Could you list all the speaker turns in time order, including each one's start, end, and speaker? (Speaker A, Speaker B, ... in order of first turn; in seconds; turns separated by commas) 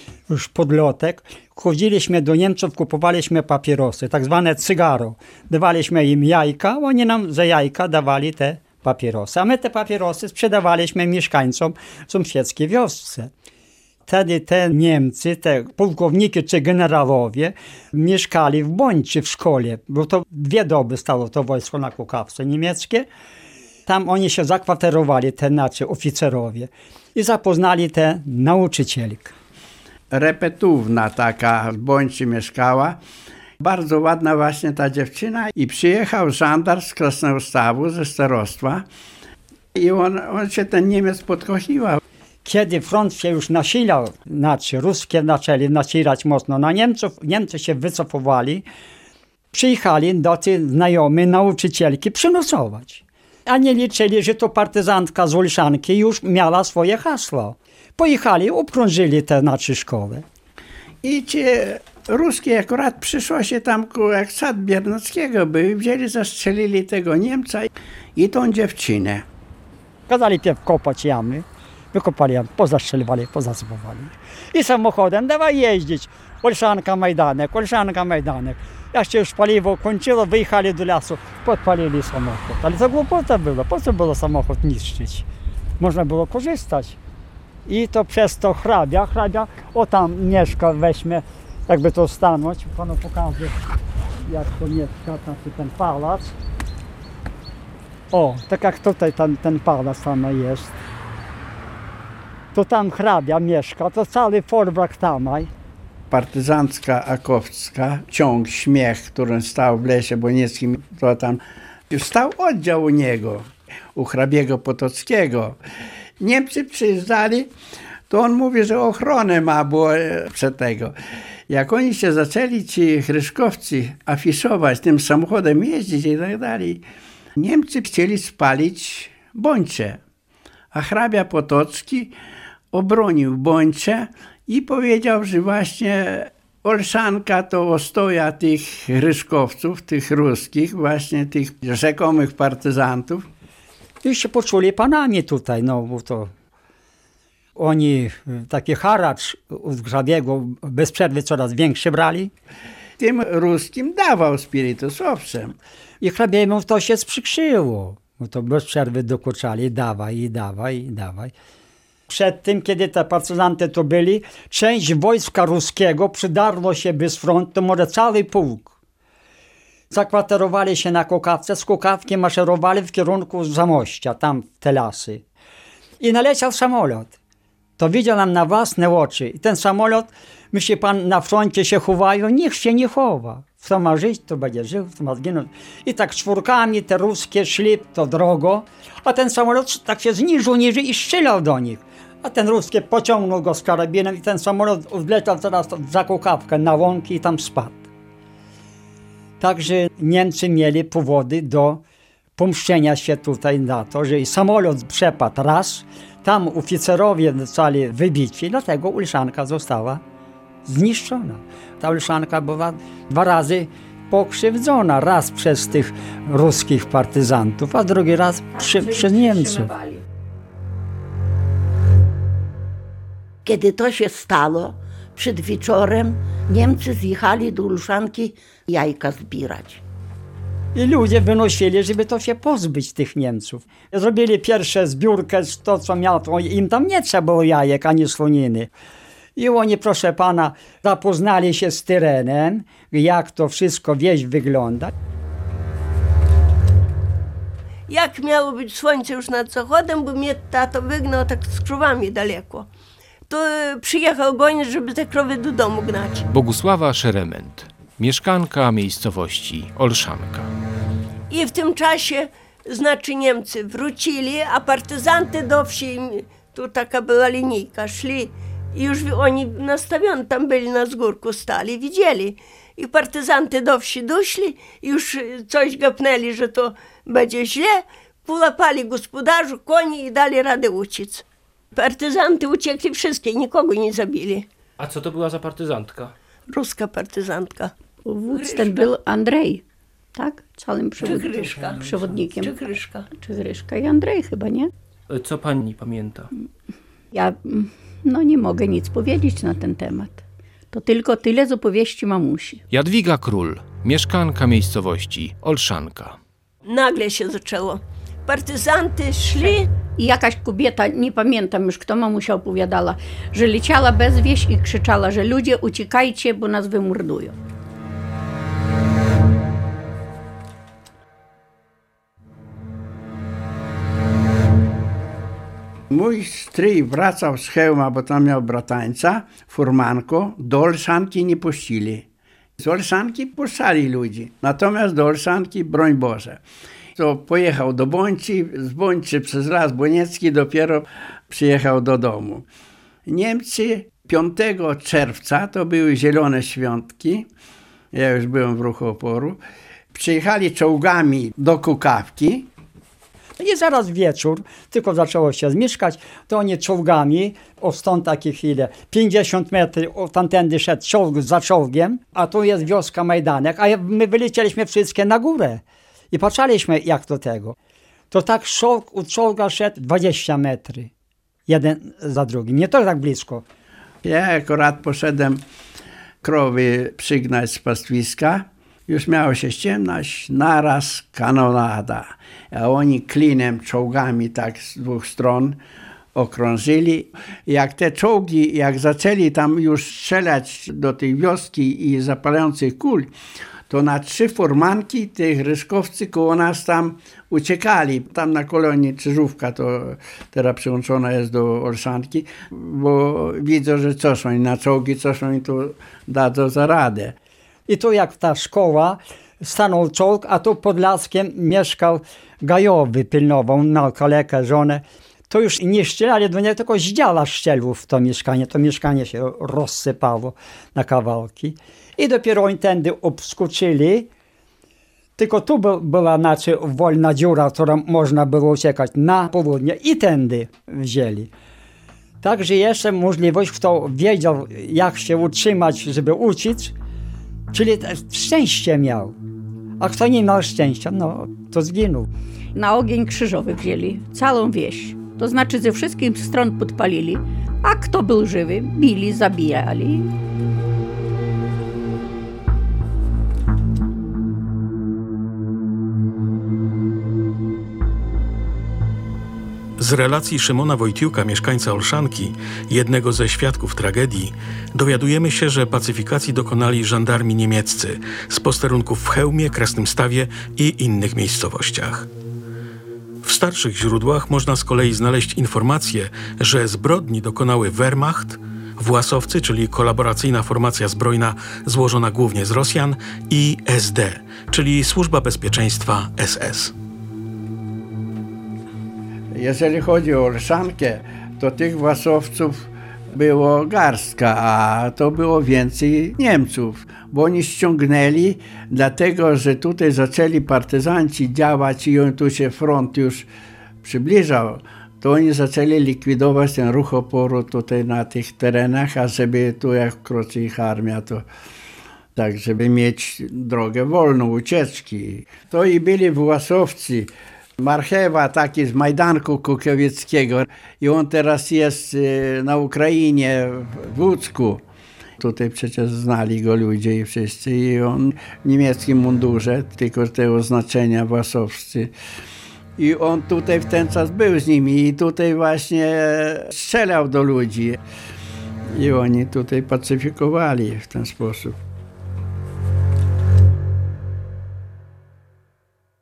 Speaker A: 0.3-13.3, Speaker A: 14.1-23.1, Speaker A: 23.9-29.3, Speaker B: 30.1-33.0, Speaker B: 33.6-38.8, Speaker B: 39.7-42.0, Speaker A: 42.4-48.6, Speaker A: 49.5-60.2, Speaker B: 61.0-69.2, Speaker A: 70.1-85.3, Speaker A: 85.8-87.0, Speaker A: 87.7-93.6, Speaker A: 94.2-96.3, Speaker A: 98.1-100.7, Speaker A: 102.5-105.5, Speaker B: 106.1-115.6, Speaker B: 116.2-117.5, Speaker B: 118.1-120.9, Speaker B: 121.5-126.8, Speaker B: 127.4-130.0, Speaker B: 130.7-132.1, Speaker B: 132.7-143.2, Speaker A: 144.0-146.3, Speaker A: 147.6-152.3, Speaker B: 153.0-155.6, Speaker A: 156.0-161.3, Speaker A: 162.1-168.7, Speaker A: 169.9-175.2, Speaker A: 176.0-177.1, Speaker A: 177.8-197.9, Speaker A: 199.4-201.8, Speaker A: 202.3-210.0, Speaker A: 210.6-219.7, Speaker C: 218.5-220.0, Speaker D: 223.4-229.8, Speaker A: 230.7-238.7, Speaker A: 239.3-244.9, Speaker E: 247.9-252.7, Speaker E: 253.3-256.3, Speaker F: 256.3-260.5, Speaker E: 261.3-284.4, Speaker G: 284.8-286.1, Speaker E: 286.5-287.7, Speaker C: 288.0-289.6, Speaker E: 288.3-288.9, Speaker C: 290.1-292.5, Speaker E: 291.0-293.1, Speaker C: 293.1-294.7, Speaker G: 295.1-296.3, Speaker C: 297.1-302.6, Speaker F: 302.7-306.2, Speaker E: 306.6-309.7, Speaker C: 310.0-317.3, Speaker B: 325.9-332.1, Speaker B: 332.6-336.4, Speaker B: 337.0-342.4, Speaker B: 343.1-347.3, Speaker B: 347.9-349.4, Speaker B: 349.9-352.5, Speaker A: 353.4-367.5, Speaker A: 368.1-370.9, Speaker A: 371.5-373.4, Speaker B: 374.0-375.4, Speaker B: 376.2-385.6, Speaker B: 386.1-393.1, Speaker B: 393.7-407.1, Speaker A: 407.7-424.1, Speaker A: 425.2-431.3, Speaker A: 432.2-436.7, Speaker A: 437.5-439.2, Speaker A: 439.8-442.1, Speaker C: 442.5-450.1, Speaker H: 459.8-472.1, Speaker H: 473.2-486.7, Speaker B: 489.3-503.3, Speaker B: 503.8-511.2, Speaker B: 512.1-524.6, Speaker B: 525.2-531.9, Speaker B: 532.8-537.8, Speaker B: 538.7-541.6